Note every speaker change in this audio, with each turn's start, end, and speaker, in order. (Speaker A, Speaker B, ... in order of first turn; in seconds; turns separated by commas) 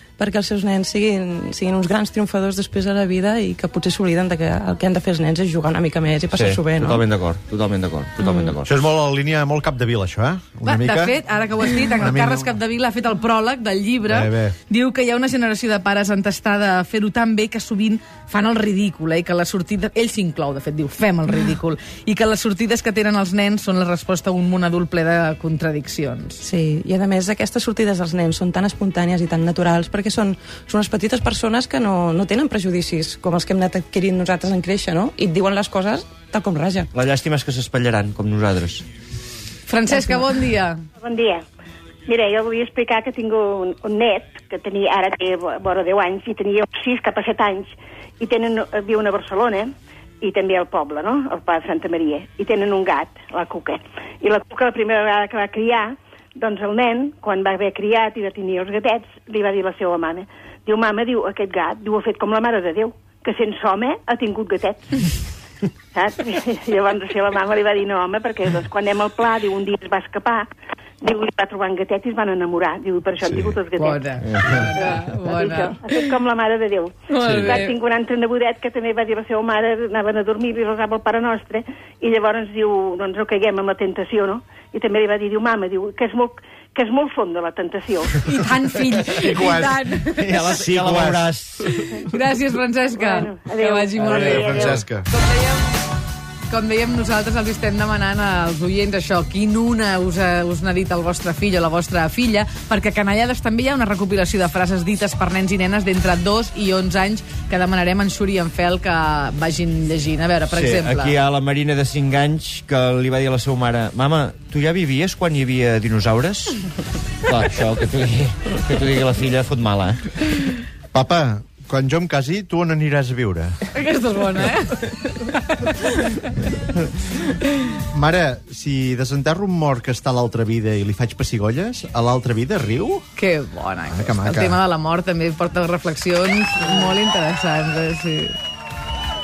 Speaker A: 0.2-7.1, Speaker B: 6.4-8.7, Speaker A: 8.2-8.6, Speaker C: 8.7-11.2, Speaker D: 10.6-26.4, Speaker C: 12.0-12.5, Speaker C: 14.1-14.6, Speaker A: 26.4-36.9, Speaker B: 36.9-38.9, Speaker D: 39.7-40.8, Speaker E: 41.0-41.4, Speaker E: 42.1-65.1, Speaker E: 65.9-70.5, Speaker E: 71.0-88.2, Speaker D: 73.8-76.0, Speaker D: 77.1-77.8, Speaker D: 88.2-90.7, Speaker C: 89.2-89.8, Speaker B: 90.2-91.6, Speaker C: 90.8-91.3, Speaker D: 91.7-95.8, Speaker E: 93.0-94.8, Speaker C: 94.3-95.0, Speaker D: 96.5-111.2, Speaker B: 110.5-116.6, Speaker B: 117.2-120.0, Speaker C: 120.9-123.5, Speaker D: 123.7-124.9, Speaker C: 127.9-133.1, Speaker D: 133.2-138.3, Speaker C: 133.9-134.6